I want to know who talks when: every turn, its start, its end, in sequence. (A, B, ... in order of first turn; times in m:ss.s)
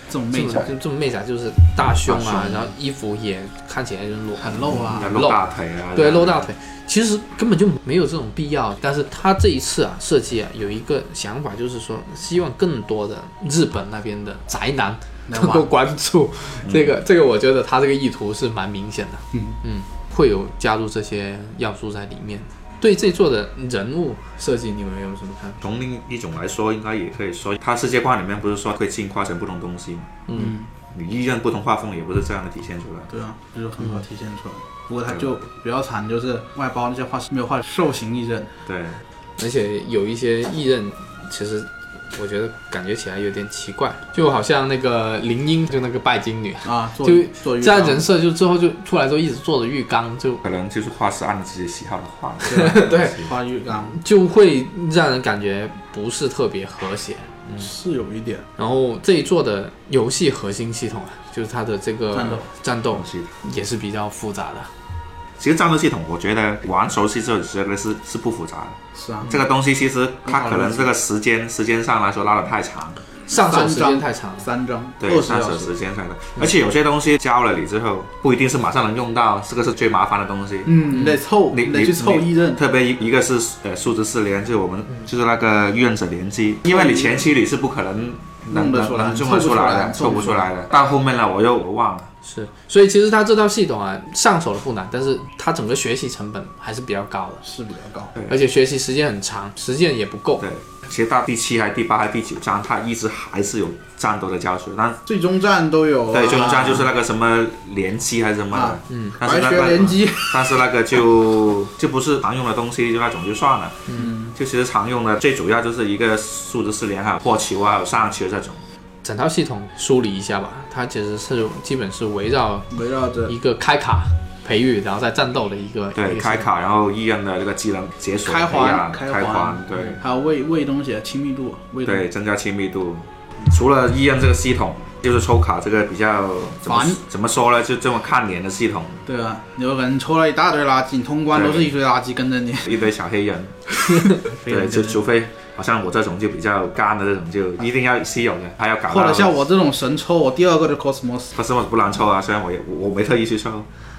0:00.1-0:00.8 A
0:00.3-0:05.4 B
0:02.1-0:02.7 C
0:04.4-0:05.1 A
0:04.8-0:06.5 C
0:06.0-0:25.6 B
0:15.3-0:15.7 A
0:16.6-0:17.0 C
0:25.6-0:30.2 C
0:30.3-0:30.5 B
0:30.4-0:30.7 A
0:30.9-0:33.1 C
0:33.1-0:38.5 A
0:38.7-0:39.0 C
0:39.4-0:50.4 B
0:46.6-0:48.1 A
0:50.4-0:53.3 C
0:52.5-0:54.0 A
0:52.5-0:53.2 B
0:53.9-0:57.7 B
0:57.6-0:58.4 A
0:58.6-1:04.7 B
1:02.1-1:02.4 A
1:02.9-1:03.3 C
1:05.4-1:13.0 C
1:09.0-1:09.4 A
1:10.2-1:10.9 A
1:13.3-1:14.5 B
1:13.3-1:15.7 A
1:15.0-1:20.8 C
1:20.7-1:22.6 A
1:21.5-1:32.1 C
1:26.7-1:27.2 A
1:28.5-1:30.5 A
1:32.2-1:37.4 B
1:37.4-1:38.2 A
1:38.3-1:40.4 B
1:40.4-1:45.0 C
1:45.1-1:46.9 A
1:46.1-1:58.6 C
1:48.5-1:50.5 A
1:48.9-1:49.2 B
1:53.9-1:54.3 A
1:59.0-2:02.7 B
2:02.7-2:03.4 A
2:03.3-2:06.5 B
2:06.0-2:10.0 C
2:08.2-2:12.1 A
2:11.8-2:19.0 C
2:16.7-2:17.0 A
2:19.1-2:22.8 A
2:21.3-2:21.7 C
2:22.6-2:23.8 C
2:24.0-2:25.0 A
2:24.5-2:29.4 C
2:28.9-2:31.3 A
2:31.3-2:33.7 C